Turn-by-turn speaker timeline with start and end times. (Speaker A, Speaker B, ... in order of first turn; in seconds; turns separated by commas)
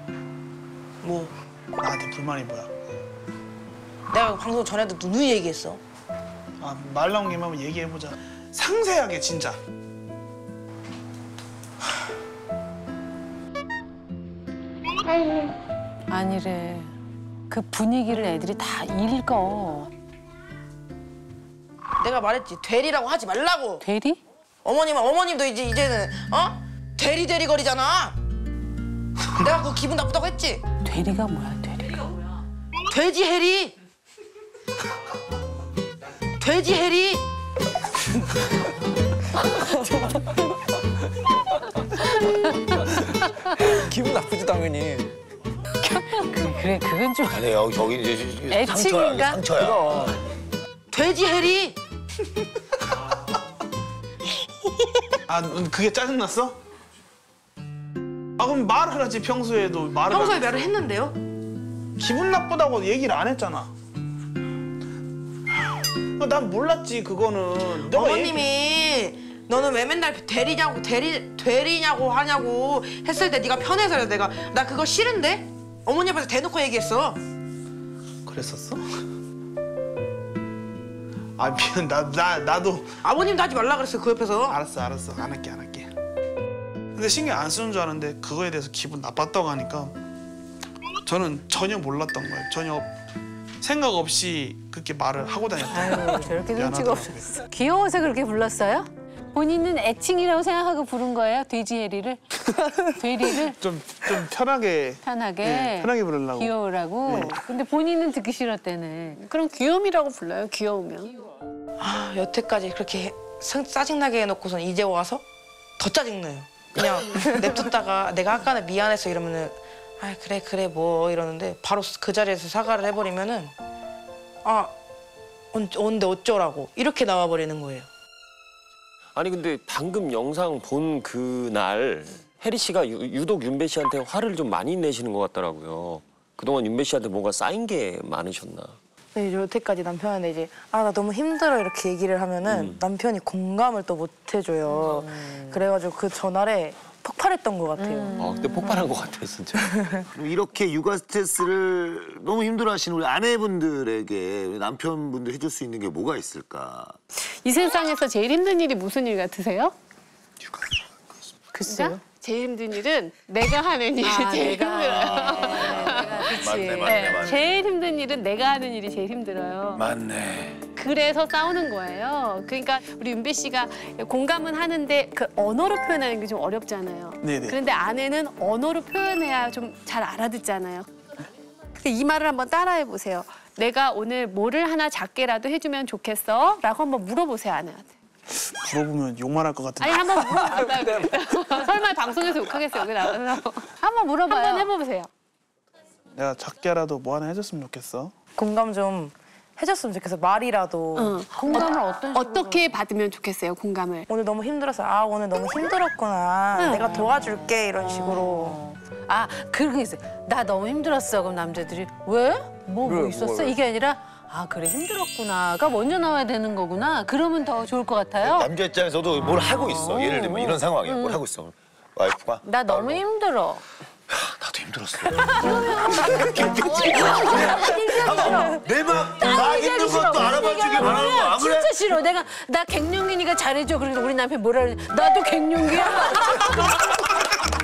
Speaker A: 1.0-1.3, Speaker B: 1.8-2.7, Speaker A: 4.1-5.8, Speaker B: 6.6-9.6, Speaker C: 16.1-16.9, Speaker C: 17.5-19.9, Speaker A: 22.0-23.8, Speaker C: 23.8-24.2, Speaker A: 24.6-28.1, Speaker A: 29.4-30.6, Speaker C: 30.8-32.1, Speaker A: 32.9-33.7, Speaker A: 36.4-37.2, Speaker D: 44.0-44.5, Speaker E: 44.0-45.0, Speaker C: 45.8-47.4, Speaker F: 47.3-50.2, Speaker C: 48.5-49.4, Speaker A: 50.9-51.8, Speaker B: 55.3-56.5, Speaker B: 58.4-60.6, Speaker A: 60.1-61.2, Speaker B: 62.0-63.7, Speaker B: 66.2-68.2, Speaker A: 67.7-77.2, Speaker B: 78.2-78.8, Speaker B: 81.4-83.0, Speaker A: 83.0-84.6, Speaker B: 84.5-85.9, Speaker B: 87.0-89.9, Speaker B: 91.1-92.9, Speaker B: 93.6-97.2, Speaker D: 95.3-96.0, Speaker C: 95.7-102.2, Speaker D: 96.5-97.1, Speaker C: 102.8-103.6, Speaker B: 103.7-106.5, Speaker C: 105.0-109.2, Speaker D: 107.1-107.4, Speaker G: 109.2-111.2, Speaker A: 111.8-115.2, Speaker A: 115.8-123.5, Speaker A: 124.4-124.7, Speaker A: 125.5-127.9, Speaker E: 129.2-138.7, Speaker A: 139.1-148.2, Speaker E: 148.2-148.9, Speaker B: 148.4-149.5, Speaker A: 149.6-150.0, Speaker F: 150.1-156.9, Speaker G: 157.1-159.7, Speaker C: 161.5-162.0, Speaker G: 161.6-169.8, Speaker C: 164.0-167.4, Speaker F: 164.9-167.6, Speaker F: 169.7-170.6, Speaker G: 170.7-180.9, Speaker G: 181.7-187.9, Speaker B: 188.3-190.8, Speaker G: 189.8-195.1, Speaker C: 193.8-194.7, Speaker B: 196.2-198.1, Speaker A: 198.3-201.2, Speaker G: 200.9-204.1, Speaker C: 201.3-202.7, Speaker A: 204.1-208.6, Speaker G: 206.5-207.0, Speaker C: 206.9-207.2, Speaker C: 208.1-218.5, Speaker F: 218.2-223.0, Speaker C: 219.6-221.2, Speaker C: 222.4-223.6, Speaker F: 224.1-232.0, Speaker C: 225.1-237.1